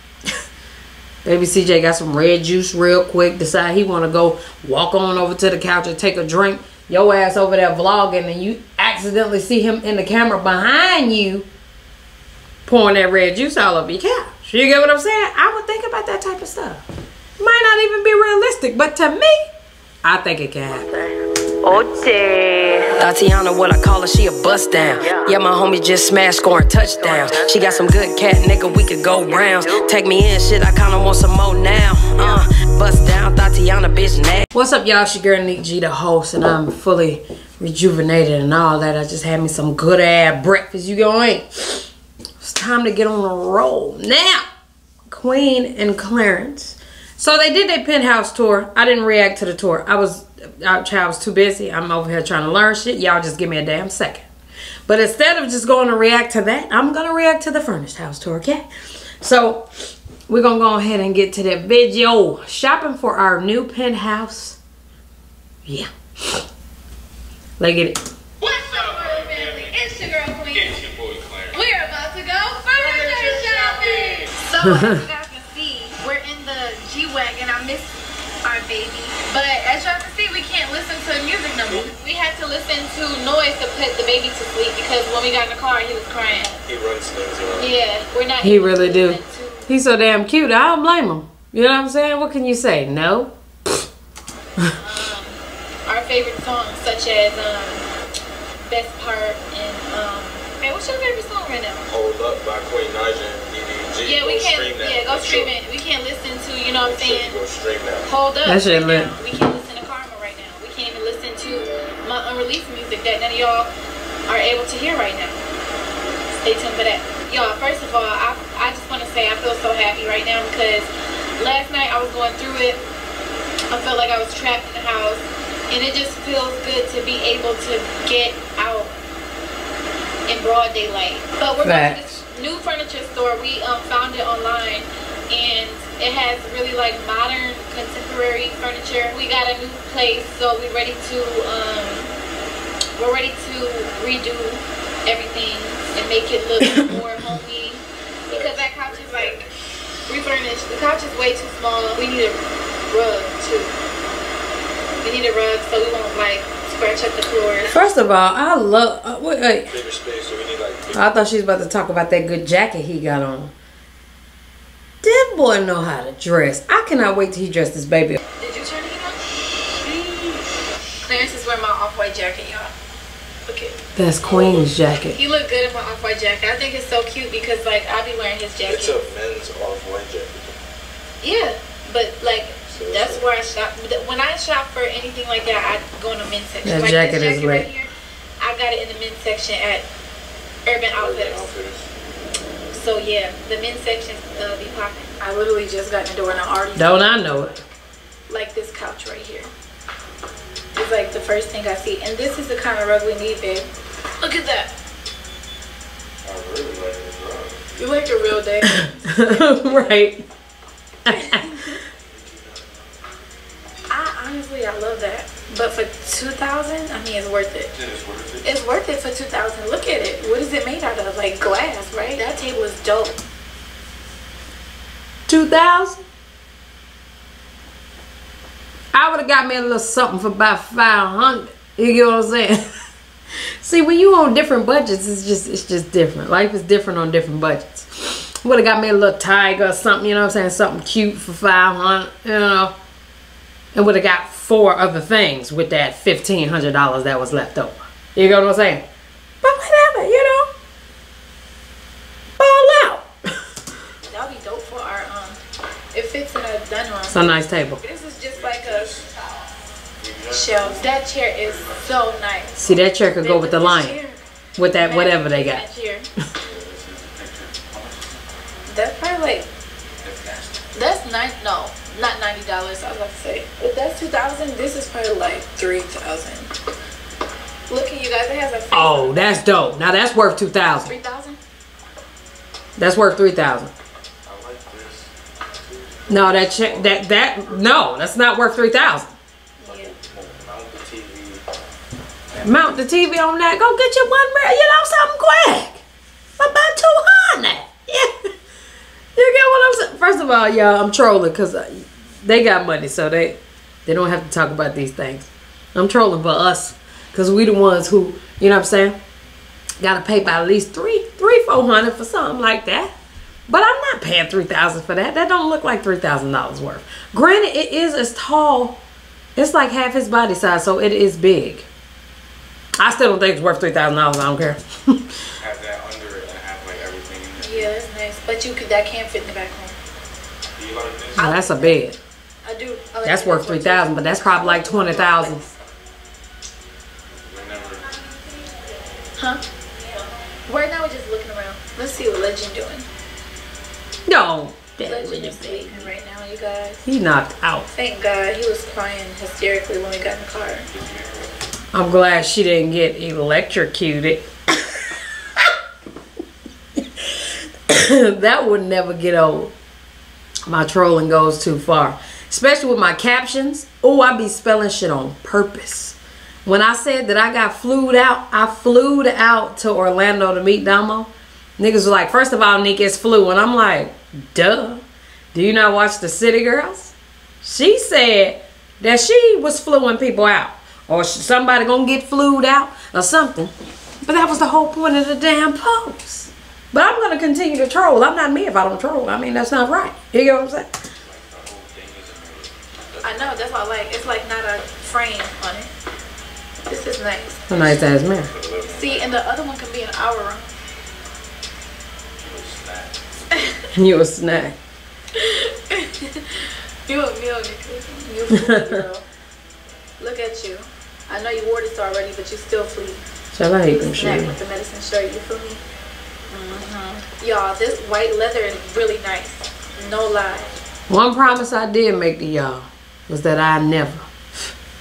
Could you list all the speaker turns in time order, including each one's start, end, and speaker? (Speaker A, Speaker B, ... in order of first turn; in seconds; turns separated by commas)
Speaker A: 1.2-11.5, Speaker A: 12.7-16.8, Speaker A: 17.4-19.5, Speaker A: 20.0-20.9, Speaker B: 20.7-21.1, Speaker B: 21.6-34.5, Speaker A: 22.9-23.2, Speaker A: 24.5-29.9, Speaker A: 32.1-32.5, Speaker A: 34.5-41.9, Speaker A: 42.4-44.5, Speaker A: 45.1-54.3, Speaker A: 54.9-58.7, Speaker A: 59.2-59.7, Speaker A: 60.3-64.6, Speaker A: 65.7-66.5, Speaker A: 67.6-68.0, Speaker C: 68.4-69.8, Speaker D: 68.4-70.7, Speaker C: 70.5-71.6, Speaker D: 71.5-86.6, Speaker C: 72.8-74.3, Speaker A: 74.6-75.0, Speaker C: 86.7-87.8, Speaker D: 87.6-89.7, Speaker A: 88.4-93.8, Speaker D: 94.8-97.8, Speaker D: 98.6-101.9, Speaker C: 101.9-105.5, Speaker D: 104.0-107.4, Speaker C: 106.7-108.1, Speaker D: 108.1-113.7, Speaker A: 108.5-109.1, Speaker D: 114.3-115.4, Speaker D: 116.4-122.8, Speaker D: 123.7-128.9, Speaker D: 130.3-142.1, Speaker A: 131.6-132.2, Speaker D: 143.0-149.5, Speaker C: 148.3-149.5, Speaker D: 150.1-153.7, Speaker D: 155.0-157.8, Speaker A: 157.7-159.7, Speaker C: 159.7-161.1, Speaker A: 160.9-163.5, Speaker A: 165.0-168.2, Speaker D: 168.4-170.4, Speaker D: 171.0-172.7, Speaker D: 173.4-173.8, Speaker A: 174.0-175.2, Speaker C: 174.3-174.7, Speaker D: 175.1-179.0, Speaker C: 178.7-180.6, Speaker D: 181.2-189.9, Speaker C: 182.7-183.3, Speaker A: 186.6-187.7, Speaker D: 190.7-191.5, Speaker C: 190.9-191.9, Speaker D: 192.7-197.4, Speaker A: 196.8-197.6, Speaker D: 198.3-199.5, Speaker D: 200.7-203.7, Speaker D: 204.2-204.7, Speaker C: 206.2-207.6, Speaker D: 207.8-210.0, Speaker A: 208.6-210.2, Speaker A: 211.1-211.8, Speaker D: 211.1-211.8, Speaker C: 212.1-212.9, Speaker D: 213.9-217.7, Speaker C: 217.7-218.5, Speaker D: 218.4-223.2, Speaker A: 225.3-226.0, Speaker A: 228.9-232.6, Speaker A: 233.6-242.8, Speaker A: 243.7-248.9, Speaker A: 249.4-250.5, Speaker A: 252.4-253.1, Speaker D: 254.1-255.4, Speaker D: 255.9-259.0, Speaker A: 257.1-257.8, Speaker C: 258.3-259.1, Speaker C: 260.0-262.2, Speaker D: 260.3-266.1, Speaker A: 262.6-264.0, Speaker A: 264.6-265.6, Speaker C: 266.4-268.2, Speaker D: 268.7-269.5, Speaker C: 270.0-270.7, Speaker D: 270.7-276.5, Speaker D: 277.7-279.4, Speaker A: 278.7-280.9, Speaker D: 280.8-281.4, Speaker A: 282.8-283.7, Speaker C: 284.2-287.7, Speaker A: 286.1-289.1, Speaker D: 289.6-289.9, Speaker C: 289.6-291.4, Speaker A: 292.4-295.8, Speaker A: 296.4-298.1, Speaker A: 299.1-309.0, Speaker A: 309.8-312.9, Speaker A: 313.5-318.8, Speaker A: 319.4-321.7, Speaker A: 322.8-325.1, Speaker C: 325.4-327.7, Speaker D: 327.4-329.8, Speaker C: 330.6-331.3, Speaker D: 331.2-331.8, Speaker A: 331.2-332.0, Speaker D: 332.4-335.5, Speaker A: 333.1-335.4, Speaker C: 337.2-337.9, Speaker D: 338.0-342.9, Speaker A: 344.1-345.9, Speaker D: 344.8-346.8, Speaker A: 346.9-347.7, Speaker D: 347.7-350.7, Speaker C: 350.7-351.3, Speaker A: 351.7-354.8, Speaker A: 356.8-359.5, Speaker A: 360.5-383.5, Speaker A: 384.0-390.8, Speaker C: 391.0-393.4, Speaker D: 393.0-395.7, Speaker D: 396.7-397.5, Speaker A: 397.5-398.3, Speaker C: 398.2-399.2, Speaker D: 398.7-400.5, Speaker C: 402.2-403.5, Speaker A: 403.8-404.6, Speaker D: 405.1-409.1, Speaker A: 408.3-408.8, Speaker D: 410.0-413.0, Speaker A: 413.3-414.4, Speaker D: 413.7-415.6, Speaker D: 416.3-420.5, Speaker A: 420.9-424.5